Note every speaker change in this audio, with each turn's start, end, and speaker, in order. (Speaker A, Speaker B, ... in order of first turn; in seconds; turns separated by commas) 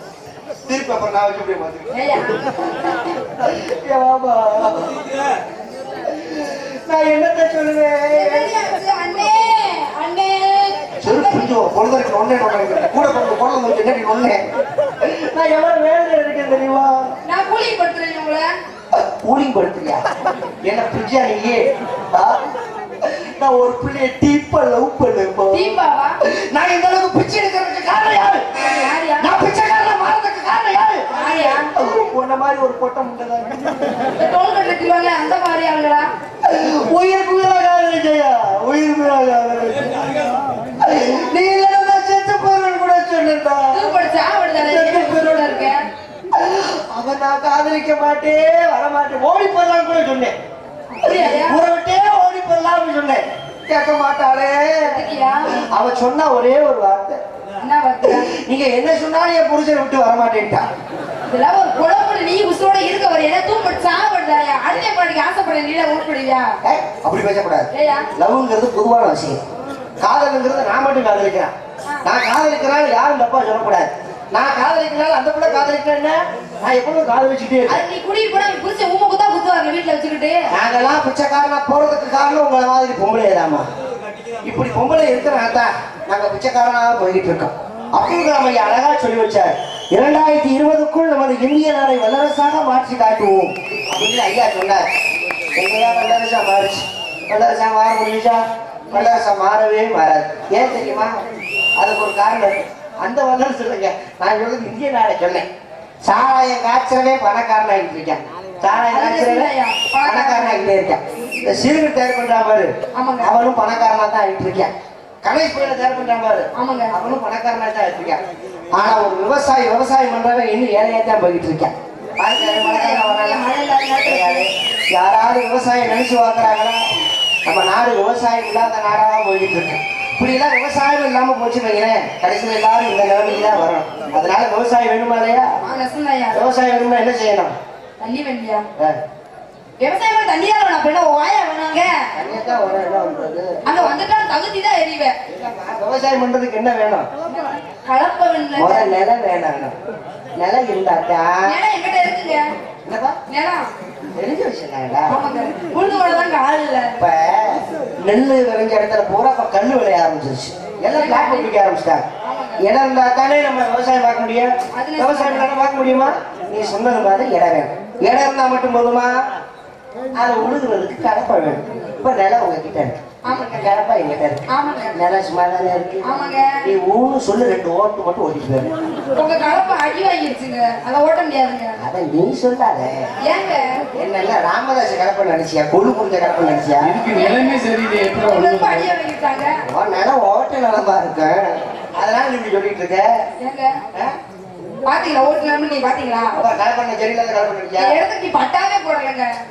Speaker A: 0.6-1.9, Speaker B: 1.9-2.5, Speaker A: 3.4-5.0, Speaker A: 6.0-8.5, Speaker B: 8.1-11.5, Speaker A: 11.0-14.4, Speaker A: 15.0-17.1, Speaker B: 17.2-18.5, Speaker A: 18.9-20.0, Speaker A: 20.6-22.4, Speaker A: 23.0-33.6, Speaker B: 25.5-26.2, Speaker B: 28.6-29.4, Speaker B: 31.1-31.7, Speaker B: 34.1-36.1, Speaker A: 36.4-40.0, Speaker A: 40.8-43.9, Speaker B: 43.7-45.9, Speaker A: 44.5-45.7, Speaker A: 46.3-50.3, Speaker B: 50.9-51.6, Speaker A: 51.0-57.2, Speaker B: 54.9-55.6, Speaker B: 57.6-58.3, Speaker A: 58.0-60.6, Speaker B: 61.3-66.5, Speaker A: 66.6-69.4, Speaker B: 67.7-68.1, Speaker A: 70.0-71.5, Speaker A: 72.0-77.8, Speaker B: 77.7-80.4, Speaker A: 80.5-83.7, Speaker A: 84.4-94.8, Speaker A: 95.5-101.2, Speaker A: 101.8-105.5, Speaker A: 106.0-109.5, Speaker B: 108.9-110.7, Speaker A: 110.0-114.7, Speaker B: 112.9-113.3, Speaker A: 115.2-118.2, Speaker B: 116.5-116.9, Speaker A: 118.7-123.4, Speaker B: 122.3-124.5, Speaker A: 124.0-126.8, Speaker A: 127.5-135.5, Speaker B: 135.6-136.5, Speaker A: 136.3-137.5, Speaker B: 138.0-138.7, Speaker B: 139.8-142.1, Speaker A: 142.1-144.0, Speaker B: 143.7-145.2, Speaker A: 145.3-147.1, Speaker B: 147.3-148.9, Speaker A: 148.6-149.7, Speaker A: 150.4-151.6, Speaker B: 151.4-152.4, Speaker A: 152.8-153.2, Speaker B: 153.3-153.7, Speaker A: 154.1-155.1, Speaker B: 155.1-156.9, Speaker A: 157.0-162.0, Speaker B: 160.9-161.5, Speaker B: 162.2-162.6, Speaker A: 162.6-169.1, Speaker B: 164.7-165.5, Speaker A: 170.1-176.0, Speaker B: 173.2-173.6, Speaker B: 174.5-175.0, Speaker B: 176.0-176.6, Speaker A: 176.6-178.7, Speaker B: 179.1-181.8, Speaker A: 181.8-183.1, Speaker B: 183.2-183.8, Speaker A: 183.9-187.0, Speaker C: 186.8-188.9, Speaker B: 187.1-187.3, Speaker B: 188.1-189.6, Speaker A: 189.6-193.1, Speaker B: 193.4-193.8, Speaker B: 194.8-196.4, Speaker A: 196.3-198.0, Speaker B: 197.8-199.3